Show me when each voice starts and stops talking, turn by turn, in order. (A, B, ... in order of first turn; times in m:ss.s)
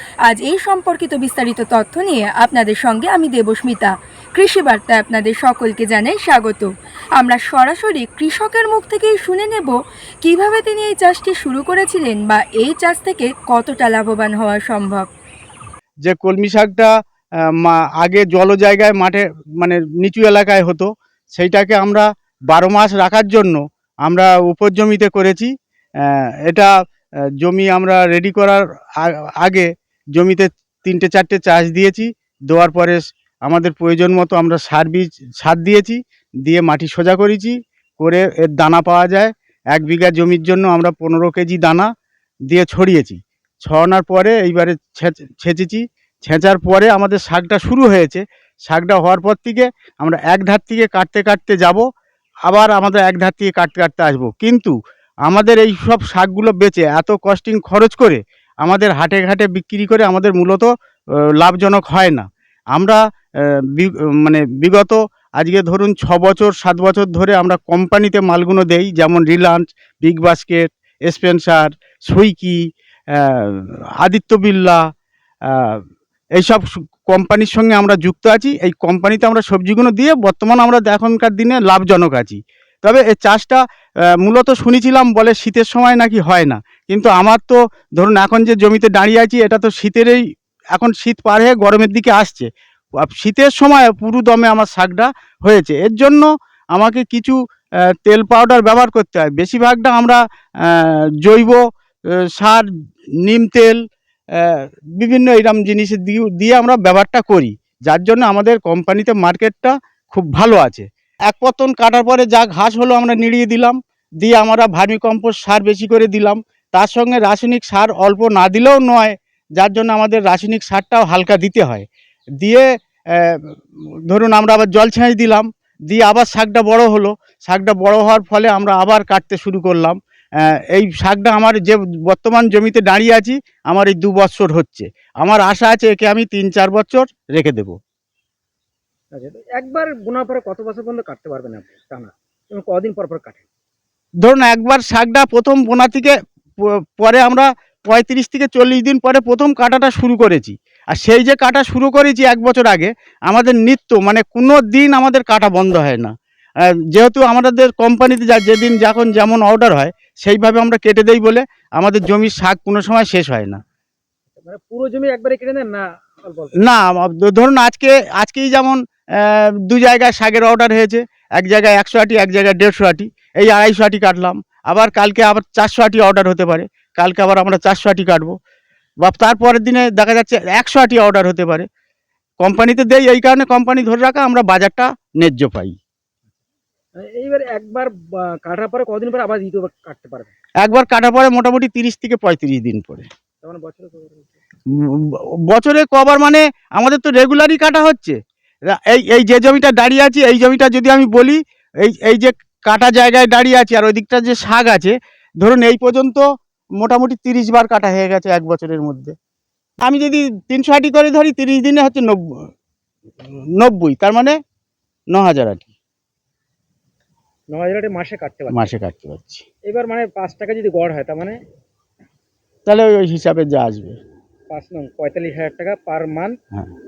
0:00.3-0:15.1 A
0:16.0-0:16.9 B
0:17.6-0:26.7 B
0:27.4-0:41.9 B
0:42.5-0:51.8 B
0:52.5-0:54.8 B
0:55.3-1:00.7 B
1:01.4-1:14.8 B
1:15.5-1:15.8 B
1:16.4-1:23.6 B
1:24.2-1:30.2 B
1:30.8-1:32.5 B
1:33.0-1:37.4 B
1:38.0-1:41.6 B
1:42.4-1:42.7 B
1:43.2-2:01.9 B
2:02.4-2:03.6 B
2:04.1-2:17.8 B
2:19.1-2:23.4 C
2:24.2-2:36.1 B
2:36.9-2:43.6 B
2:44.4-2:46.6 C
2:46.6-2:58.4 B
2:59.0-3:01.7 B
3:02.4-3:05.8 B
3:07.0-3:10.3 C
3:10.6-3:13.1 B
3:13.4-3:14.4 C
3:14.7-3:18.2 B
3:18.7-3:26.2 B
3:26.8-3:29.2 B
3:29.8-3:32.5 B
3:33.3-3:34.4 B
3:35.1-3:35.7 B
3:37.5-3:38.7 C
3:38.5-3:39.4 B
3:39.7-3:41.4 C
3:42.7-3:44.0 B
3:44.5-3:46.4 C